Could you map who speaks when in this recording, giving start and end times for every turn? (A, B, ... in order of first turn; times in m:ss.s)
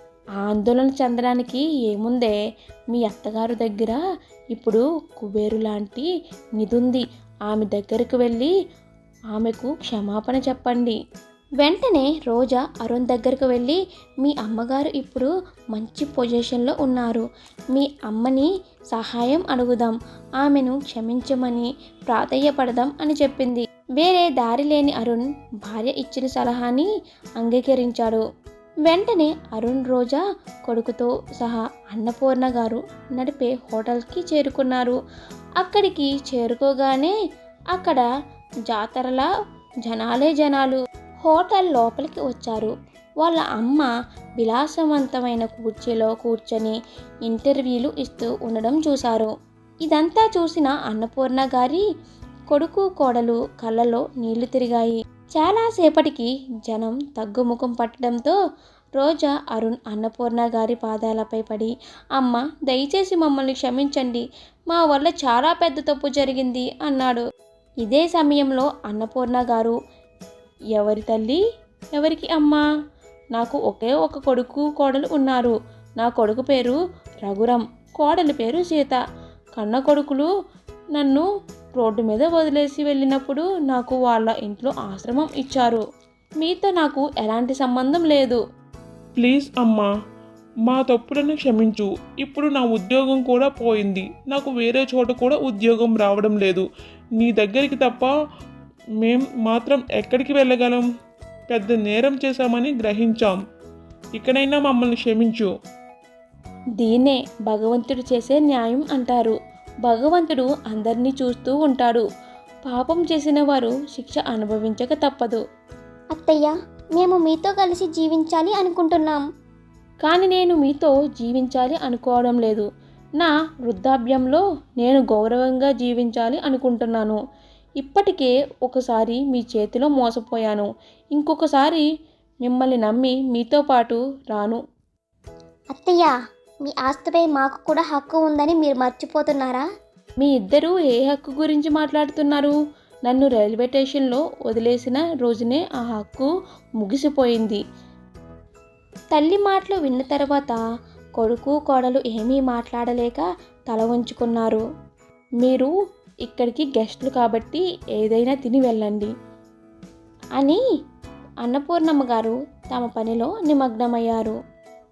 0:00.4-0:02.3 A
0:02.9-0:04.0 A
0:04.5-0:08.5 A
0:09.3-0:11.0 A
0:11.6-0:17.2 A
0:17.7-0:28.2 A
0:28.9-0:35.0 A
0:35.6-0:37.1 A
0:37.7-0:38.0 A
0:38.7-0:39.3 A
0:39.8-0:49.3 A
0:49.8-0:51.8 A
0:52.5-0:58.3 A
0:59.0-1:07.2 A
1:07.8-1:09.8 A
1:10.7-1:11.4 A
1:12.0-1:12.6 A
1:13.3-1:19.0 A
1:19.6-1:20.3 A
1:20.9-1:21.2 A
1:21.8-1:25.8 A
1:26.4-1:28.4 A
1:29.2-1:29.9 B
1:30.7-1:36.6 B
1:37.2-1:38.1 B
1:39.0-1:40.8 B
1:41.5-1:43.4 B
1:44.1-1:45.5 B
1:46.8-1:52.0 A
1:52.6-1:55.4 A
1:56.1-1:59.2 C
2:00.0-2:02.7 A
2:03.2-2:07.2 A
2:07.8-2:11.8 A
2:12.4-2:14.6 A
2:15.7-2:19.6 C
2:20.2-2:22.5 A
2:23.1-2:26.3 A
2:26.8-2:27.6 A
2:29.1-2:30.6 A
2:31.2-2:34.6 A
2:35.4-2:35.7 A
2:36.2-2:39.1 A
2:41.4-2:44.4 A